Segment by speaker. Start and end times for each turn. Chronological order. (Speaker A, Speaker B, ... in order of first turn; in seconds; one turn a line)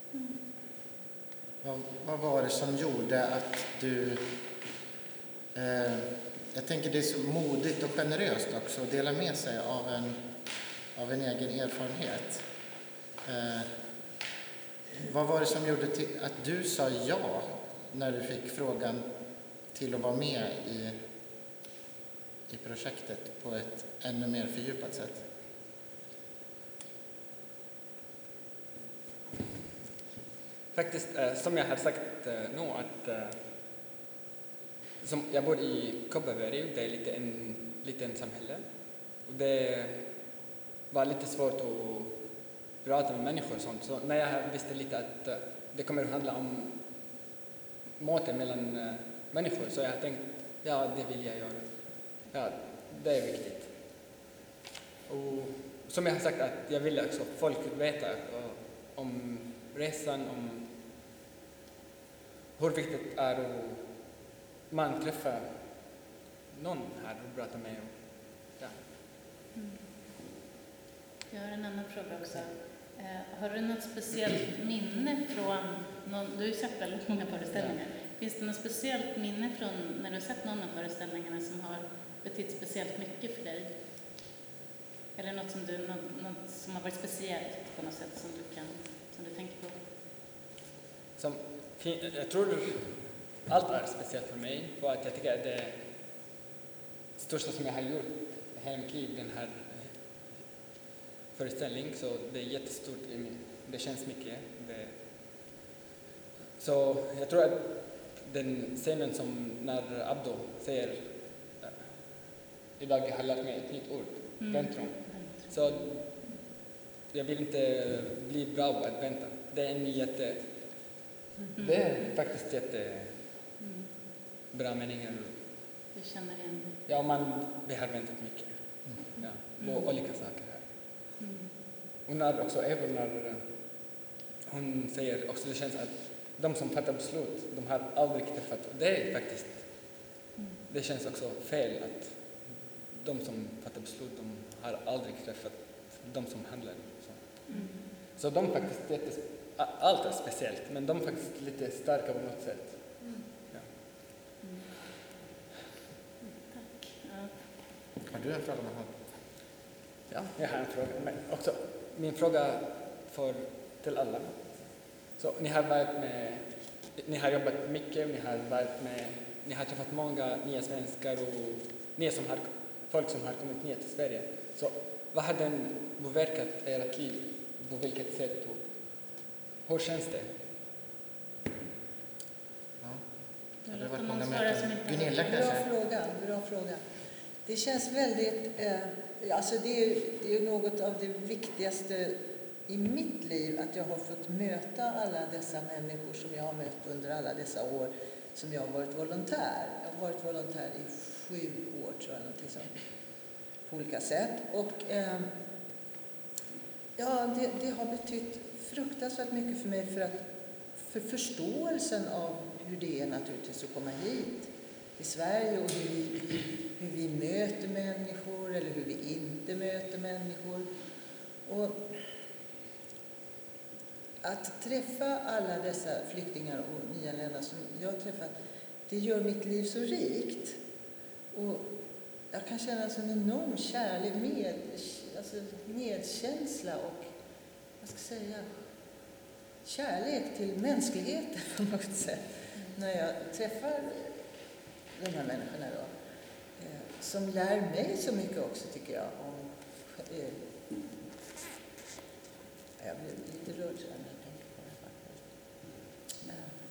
Speaker A: 1.6-4.3
Speaker A: 5.5-10.3
Speaker A: 10.9-12.5
Speaker A: 13.2-13.7
Speaker A: 15.0-19.1
Speaker A: 19.7-21.0
Speaker A: 22.5-25.3
Speaker B: 30.7-33.5
Speaker B: 35.0-47.2
Speaker B: 48.0-54.1
Speaker B: 55.1-60.8
Speaker B: 62.6-68.8
Speaker C: 69.5-69.9
Speaker C: 71.3-83.7
Speaker C: 85.2-89.8
Speaker B: 91.2-96.2
Speaker B: 97.2-100.4
Speaker B: 101.3-105.5
Speaker B: 106.6-116.6
Speaker C: 114.4-116.4
Speaker B: 117.1-121.0
Speaker C: 121.5-122.1
Speaker B: 121.6-123.3
Speaker C: 123.6-123.9
Speaker B: 124.5-125.5
Speaker C: 125.9-126.8
Speaker B: 126.9-131.1
Speaker C: 129.6-129.9
Speaker C: 131.2-131.5
Speaker B: 132.1-153.7
Speaker C: 147.5-147.9
Speaker C: 154.4-154.7
Speaker C: 156.2-157.5
Speaker A: 158.1-159.0
Speaker B: 160.1-180.4
Speaker A: 182.8-183.1
Speaker A: 183.6-185.7
Speaker C: 183.7-185.4
Speaker D: 185.2-186.8
Speaker D: 187.4-203.1
Speaker D: 203.6-205.3
Speaker D: 206.9-220.7
Speaker D: 221.4-222.0
Speaker D: 224.2-228.3
Speaker D: 228.9-230.6
Speaker D: 231.3-237.1
Speaker D: 237.8-238.6
Speaker D: 239.6-244.2
Speaker D: 244.9-245.9
Speaker D: 246.6-250.6
Speaker D: 252.8-255.3